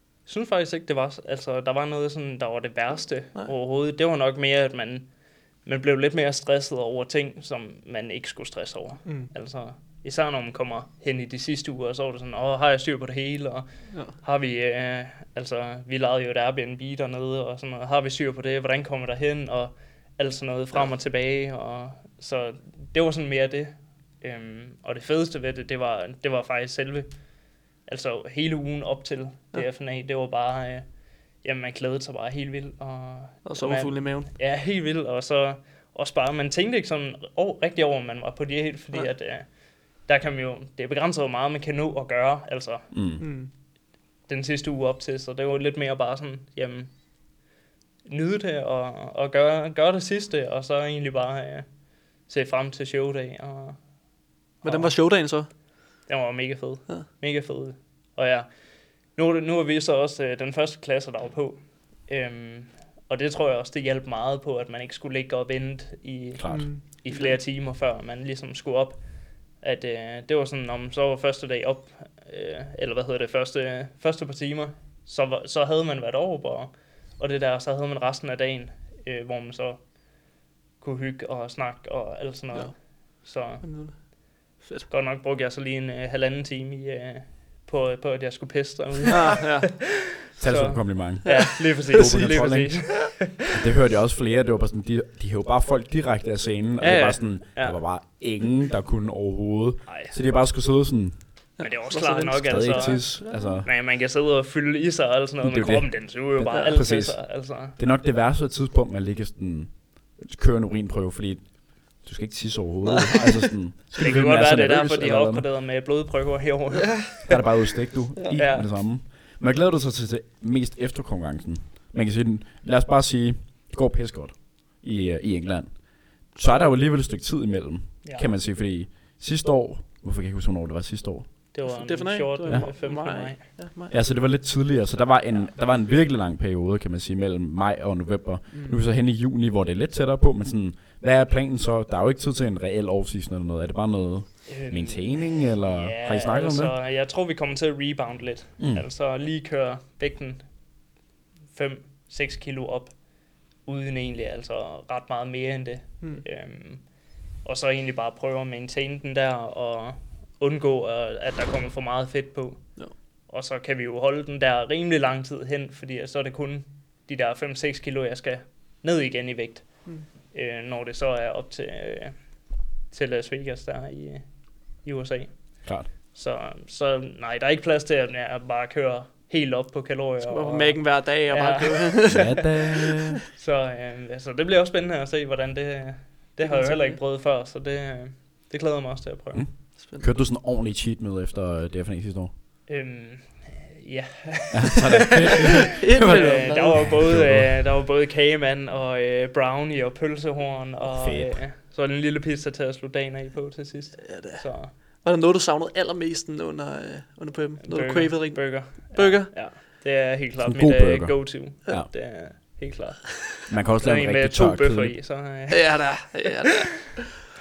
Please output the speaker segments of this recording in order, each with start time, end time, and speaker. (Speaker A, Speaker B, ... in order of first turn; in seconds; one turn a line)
Speaker A: 0.2-43.2
Speaker B: 9.0-9.3
Speaker B: 13.9-14.2
Speaker B: 33.4-34.3
Speaker C: 42.9-43.2
Speaker B: 43.2-43.5
Speaker A: 44.2-47.1
Speaker A: 48.0-54.0
Speaker A: 54.6-55.4
Speaker B: 54.6-55.5
Speaker A: 56.0-80.3
Speaker C: 66.3-66.8
Speaker B: 66.5-67.4
Speaker A: 80.8-84.1
Speaker B: 82.5-84.9
Speaker A: 84.9-89.7
Speaker B: 89.1-90.0
Speaker C: 90.4-101.5
Speaker A: 90.4-93.4
Speaker B: 91.2-92.0
Speaker A: 96.8-97.8
Speaker A: 99.9-100.2
Speaker B: 101.6-103.6
Speaker A: 101.6-107.8
Speaker C: 102.4-103.7
Speaker C: 105.4-115.5
Speaker A: 113.9-117.3
Speaker C: 117.2-131.6
Speaker B: 118.2-118.4
Speaker A: 118.3-118.7
Speaker A: 128.0-128.3
Speaker A: 131.5-133.4
Speaker B: 131.6-133.9
Speaker C: 132.4-133.2
Speaker C: 133.9-146.8
Speaker B: 138.5-138.8
Speaker A: 144.4-150.8
Speaker C: 148.6-148.9
Speaker A: 151.5-182.3
Speaker C: 175.6-175.9
Speaker B: 180.2-183.0
Speaker C: 182.1-183.2
Speaker A: 183.3-189.5
Speaker B: 186.4-187.0
Speaker C: 189.3-192.3
Speaker B: 189.8-190.1
Speaker A: 192.7-195.0
Speaker C: 194.5-197.7
Speaker B: 195.7-197.1
Speaker A: 195.9-204.7
Speaker C: 200.8-201.4
Speaker B: 204.1-209.5
Speaker A: 207.6-216.2
Speaker C: 210.4-211.9
Speaker C: 213.5-215.2
Speaker B: 215.5-217.0